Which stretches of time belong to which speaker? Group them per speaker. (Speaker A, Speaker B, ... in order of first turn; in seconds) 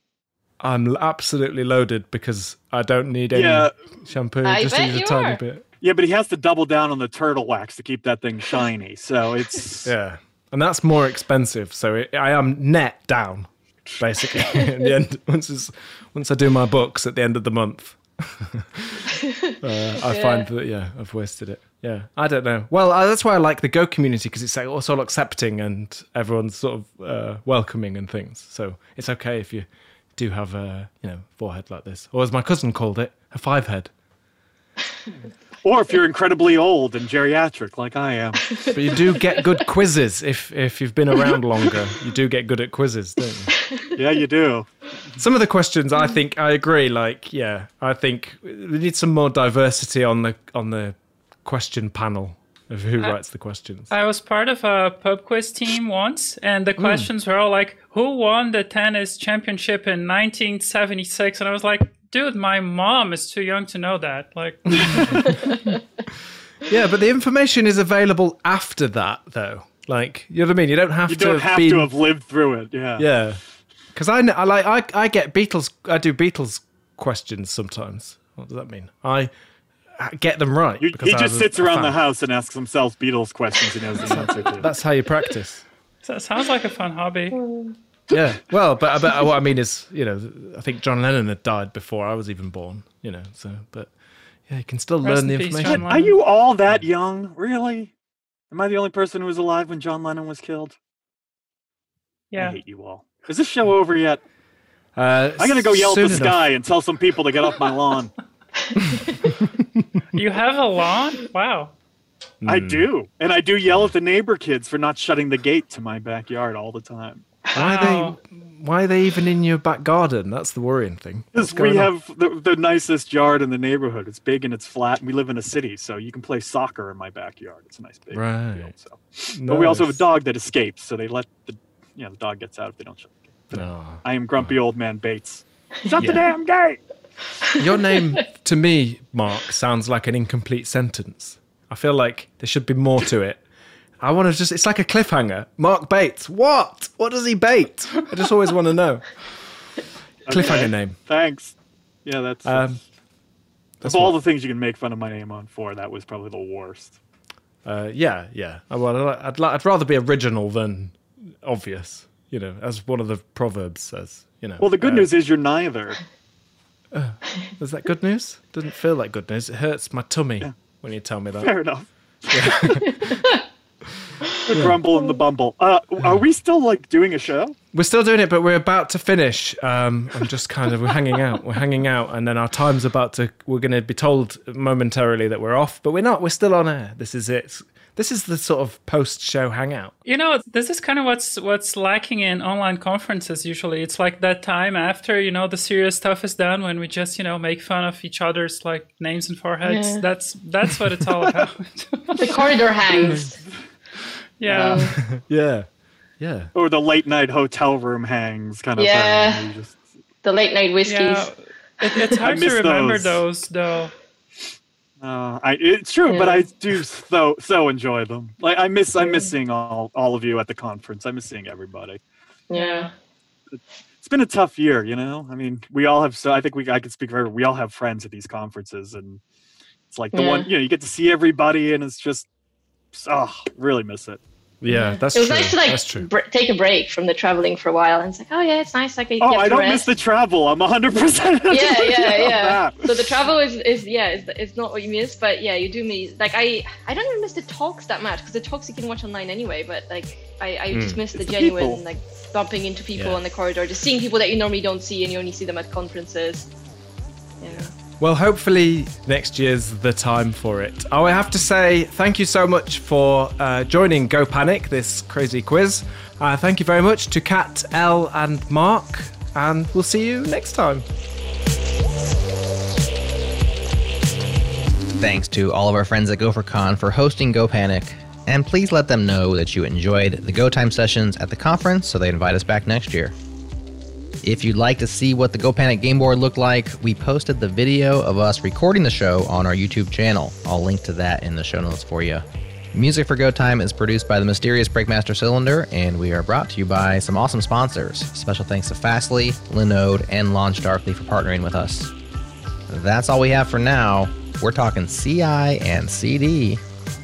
Speaker A: 0.6-5.6, 9.8-19.1, 19.6-33.9, 38.7-43.5, 45.2-53.9, 56.8-57.1, 64.8-65.2, 66.7-71.9, 73.0-73.4, 73.9-79.3, 80.0-82.0, 84.0-85.7, 88.1-93.9, 94.5-95.9, 105.0-106.5, 108.8-110.0, 112.4-112.9, 117.5-121.9, 128.1-128.7, 129.3-130.1, 133.5-134.6, 136.0-136.2, 137.6-143.4, 144.0-149.1, 150.3-151.0, 152.4-152.8, 153.8-154.2, 157.7-165.1, 166.9-171.5, 172.3-173.3, 174.1-174.8, 177.7-189.9, 203.0-203.3, 204.9-205.7, 206.2-206.5, 234.6-236.1, 250.7-251.0, 253.0-253.2, 258.0-270.9
Speaker B: 3.3-3.7, 5.8-9.9, 35.6-38.8, 44.0-44.7, 64.8-65.4, 71.1-73.1, 80.8-84.7, 95.7-97.9, 98.5-100.8, 102.3-104.2, 105.4-108.1, 112.5-117.2, 121.3-136.8, 150.3-152.7, 153.8-157.0, 164.6-166.0, 171.3-173.0, 174.5-177.6, 203.0-203.6, 204.5-204.9, 206.5-209.8, 212.2-213.2, 215.0-222.0, 223.5-229.2, 229.9-232.3, 232.9-234.2, 239.2-243.0, 251.2-251.8
Speaker C: 4.4-5.4, 20.0-20.5, 87.4-87.7, 199.6-200.0, 202.2-203.4, 204.5-204.9, 208.8-209.5, 210.2-211.3, 211.8-212.1, 216.1-216.5, 222.5-222.9, 230.1-230.5, 234.7-239.9, 241.5-256.5, 257.4-257.7
Speaker D: 53.9-65.5, 86.0-87.4, 95.0-96.2, 102.3-102.6, 110.1-111.7, 117.5-118.2, 190.1-202.6, 204.4-204.9, 210.8-213.9, 222.6-222.9
Speaker E: 275.0-283.1, 284.2-301.9, 302.7-306.6